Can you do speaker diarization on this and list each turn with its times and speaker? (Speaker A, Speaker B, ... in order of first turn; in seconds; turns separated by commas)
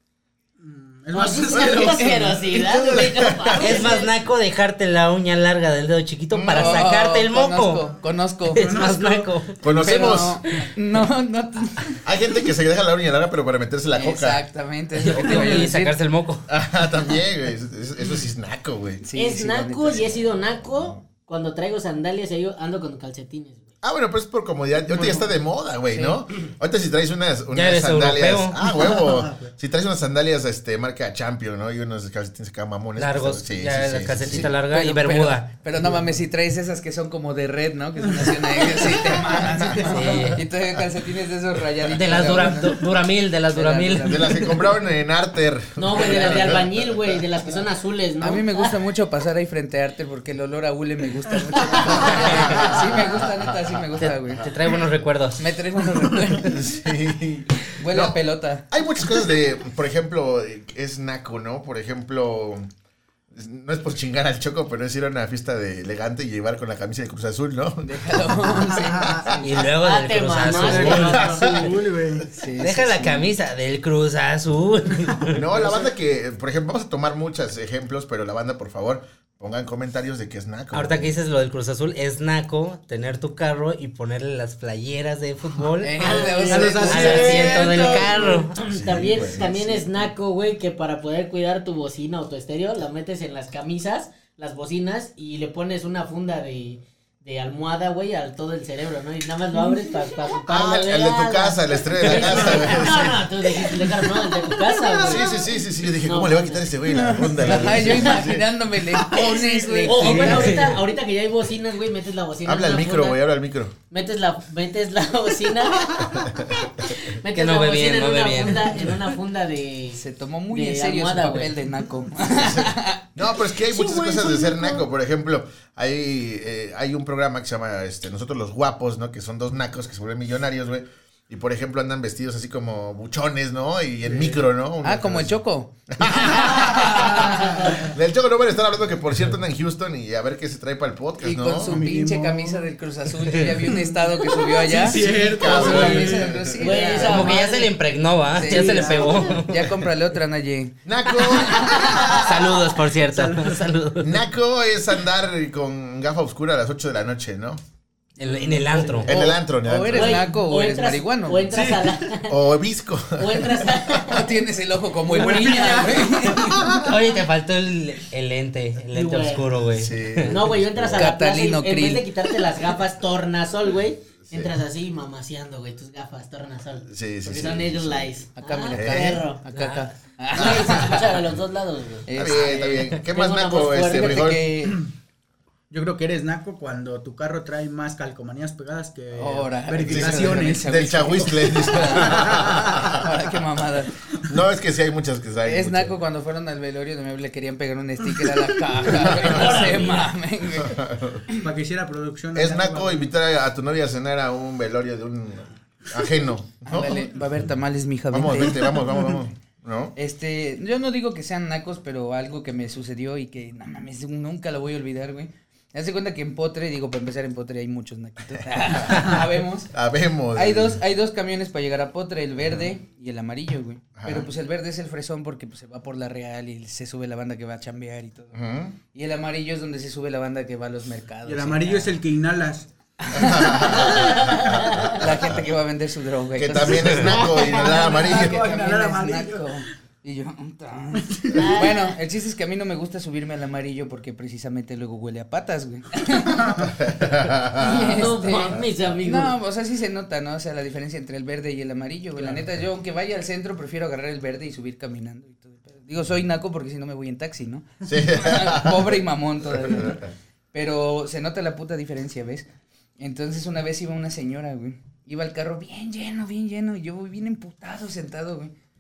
Speaker A: 0.6-3.8, Speaker B: 1.1-4.1, Speaker C: 1.6-2.0, Speaker C: 2.9-3.7, Speaker D: 3.5-7.9, Speaker C: 6.3-6.8, Speaker E: 6.5-8.8, Speaker D: 8.5-9.9, Speaker A: 8.6-9.3, Speaker C: 9.6-10.4, Speaker E: 9.7-12.0, Speaker C: 12.0-14.4, Speaker E: 13.9-15.9, Speaker D: 15.0-16.4, Speaker A: 15.3-15.6, Speaker C: 16.5-19.0, Speaker E: 19.0-20.0, Speaker B: 19.1-23.7, Speaker C: 23.8-34.5, Speaker E: 24.9-25.2, Speaker E: 25.9-26.2, Speaker D: 27.5-28.6, Speaker A: 28.6-29.5, Speaker D: 33.0-35.5, Speaker E: 34.4-42.8, Speaker A: 38.2-40.3, Speaker D: 39.8-40.4, Speaker D: 41.9-44.6, Speaker E: 43.5-44.6, Speaker C: 44.0-47.2, Speaker B: 45.8-48.7, Speaker E: 48.2-54.5, Speaker C: 51.9-53.5, Speaker D: 52.1-52.7, Speaker D: 54.0-55.4, Speaker E: 55.4-56.6, Speaker C: 56.4-58.2, Speaker E: 57.8-58.6, Speaker C: 58.7-62.7, Speaker C: 63.3-69.4, Speaker E: 67.8-69.5, Speaker A: 68.6-69.3, Speaker D: 69.4-71.4, Speaker B: 69.8-71.7, Speaker A: 70.4-72.3, Speaker C: 71.3-71.6, Speaker E: 72.3-73.2, Speaker D: 72.6-75.5, Speaker C: 75.3-81.1, Speaker D: 80.7-88.5, Speaker E: 85.8-88.4, Speaker B: 86.0-105.3, Speaker A: 86.0-88.3, Speaker C: 88.7-90.1, Speaker C: 100.5-103.3, Speaker A: 102.3-102.6, Speaker C: 105.0-108.5, Speaker B: 106.0-106.9, Speaker E: 106.9-110.6, Speaker A: 107.4-108.1, Speaker A: 108.9-110.5, Speaker B: 109.8-113.2, Speaker D: 110.3-110.8, Speaker C: 112.5-113.7, Speaker B: 113.9-116.1, Speaker C: 116.0-116.5, Speaker B: 117.0-121.5, Speaker D: 117.3-119.1, Speaker E: 120.0-123.0, Speaker C: 122.2-141.8, Speaker B: 123.7-124.8, Speaker A: 134.0-134.4, Speaker E: 134.8-137.7, Speaker A: 136.3-137.9, Speaker E: 141.2-147.4, Speaker A: 141.6-142.7, Speaker A: 143.7-146.4, Speaker C: 144.7-146.9, Speaker B: 146.6-147.7, Speaker D: 146.9-149.7, Speaker E: 148.3-151.9, Speaker A: 148.4-149.3, Speaker C: 150.8-152.2, Speaker D: 151.9-154.2, Speaker A: 153.0-153.6, Speaker C: 154.0-157.6, Speaker D: 158.2-159.3, Speaker E: 158.2-161.5, Speaker A: 158.3-159.1, Speaker C: 159.1-160.2, Speaker B: 159.9-162.4, Speaker A: 161.5-162.0, Speaker C: 162.3-163.7, Speaker B: 163.1-164.2, Speaker E: 164.1-166.7, Speaker A: 165.1-166.9, Speaker B: 165.1-166.1, Speaker D: 166.8-170.4, Speaker B: 168.9-169.5, Speaker C: 169.7-171.1, Speaker B: 170.3-179.4, Speaker E: 170.9-172.1, Speaker C: 176.9-178.2, Speaker E: 178.4-181.2, Speaker C: 178.7-179.2, Speaker D: 179.5-179.9, Speaker C: 180.3-180.9, Speaker B: 180.3-182.4, Speaker E: 182.1-182.9, Speaker C: 182.1-184.5, Speaker B: 183.0-184.3, Speaker E: 183.8-184.8, Speaker A: 185.7-190.9, Speaker E: 189.1-193.9, Speaker C: 189.8-193.1, Speaker A: 191.9-193.0, Speaker C: 194.3-195.9, Speaker E: 195.4-200.8, Speaker B: 199.2-200.1, Speaker C: 200.5-201.2, Speaker A: 201.4-203.1, Speaker C: 202.3-207.1, Speaker E: 206.7-208.9, Speaker C: 208.1-209.9, Speaker E: 209.9-219.7, Speaker C: 218.7-219.1, Speaker C: 219.7-220.8, Speaker E: 220.3-228.3, Speaker C: 224.0-224.3, Speaker C: 228.3-228.8, Speaker E: 228.9-231.9, Speaker A: 231.2-232.7, Speaker E: 233.0-234.1, Speaker C: 233.1-235.4, Speaker B: 233.8-235.0, Speaker E: 234.9-246.4, Speaker C: 236.3-238.4, Speaker B: 237.0-237.3, Speaker A: 237.3-239.6, Speaker A: 240.9-241.5, Speaker B: 241.3-241.9, Speaker A: 246.2-246.7, Speaker C: 246.7-248.6, Speaker E: 247.6-262.4, Speaker B: 247.6-249.3, Speaker C: 257.8-258.9, Speaker C: 259.5-260.0, Speaker E: 263.0-268.5